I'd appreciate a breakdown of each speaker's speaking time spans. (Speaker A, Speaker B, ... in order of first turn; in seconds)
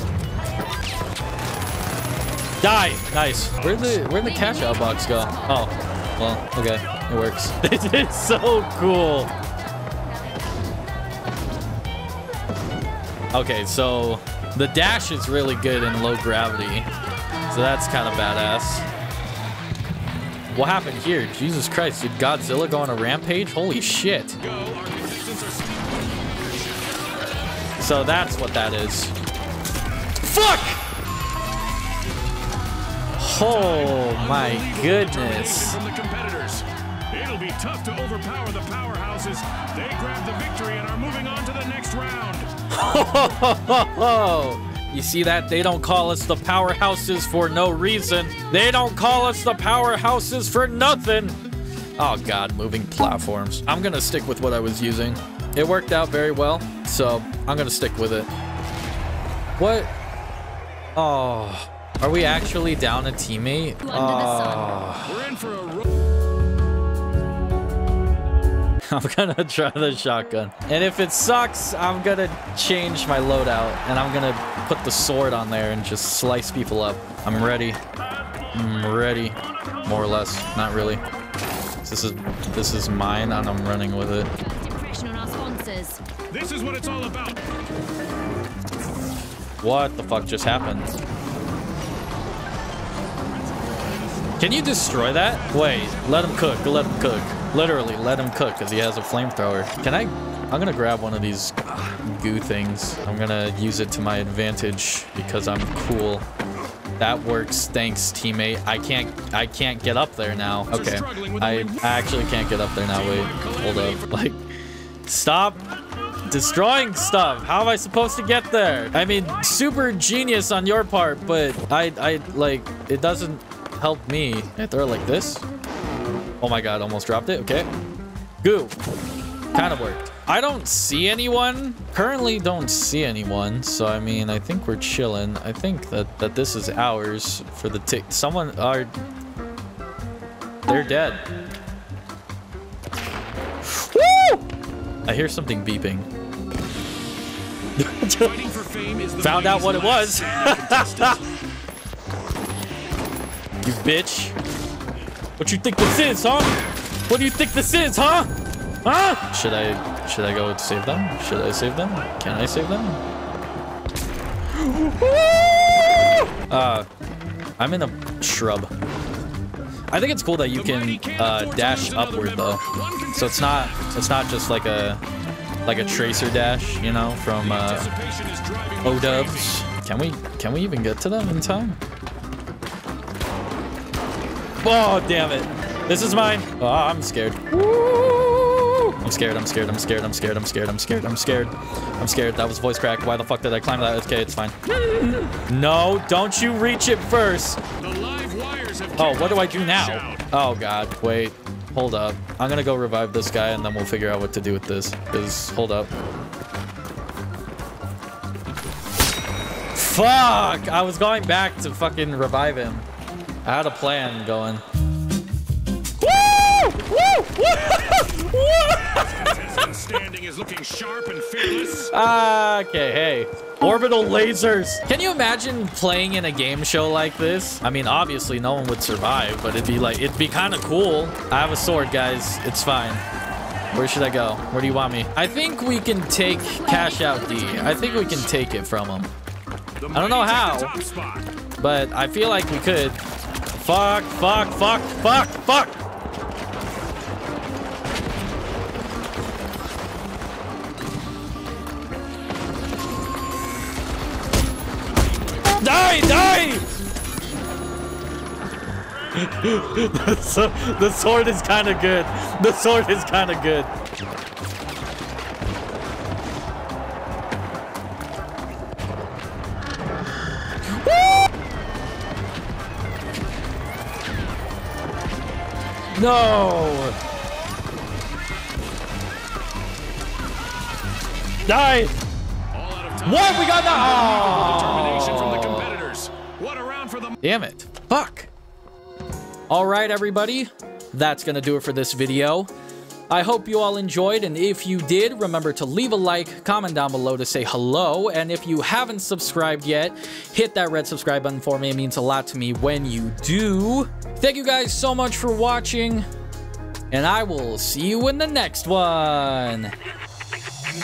Speaker A: 2.6-9.3, 13.3-16.9, 17.5-18.9, 20.5-24.4, 27.8-29.1, 30.2-30.9, 33.2-35.8, 42.7-51.4, 52.0-58.3, 59.6-59.9, 61.0-65.3, 68.9-77.8, 78.5-81.0, 81.8-84.3, 89.6-90.9, 94.4-106.3, 107.0-114.4, 115.1-115.6, 116.3-125.5, 126.4-127.7, 128.4-128.8, 129.5-138.9, 140.7-141.2, 143.6-144.4, 145.1-146.1, 147.8-148.3, 149.2-151.2, 153.6-154.4, 155.4-158.3, 158.8-163.0, 164.5-165.6, 166.5-166.9, 167.6-168.7, 169.9-175.0, 175.7-177.9, 178.8-181.8, 184.6-197.6, 199.0-205.9, 209.7-212.9, 213.4-214.6, 216.0-219.7, 221.4-233.0, 233.7-239.1, 239.9-240.8, 241.6-243.0, 243.5-245.8, 255.4-256.7, 259.1-263.7, 270.7-271.3, 275.9-277.0, 281.4-281.9, 283.0-285.8, 287.2-288.3, 289.5-292.5, 293.1-306.1, 306.9-309.7
Speaker B: 4.4-5.0, 64.0-64.7, 84.4-86.0, 236.7-237.9
Speaker C: 24.4-27.0, 33.4-42.5, 65.1-65.9, 86.3-87.4, 94.9-96.3, 110.7-112.2, 112.9-114.1, 148.1-151.3, 170.5-174.0, 175.9-179.7, 197.8-200.3, 218.9-221.9, 239.8-241.3, 282.5-287.2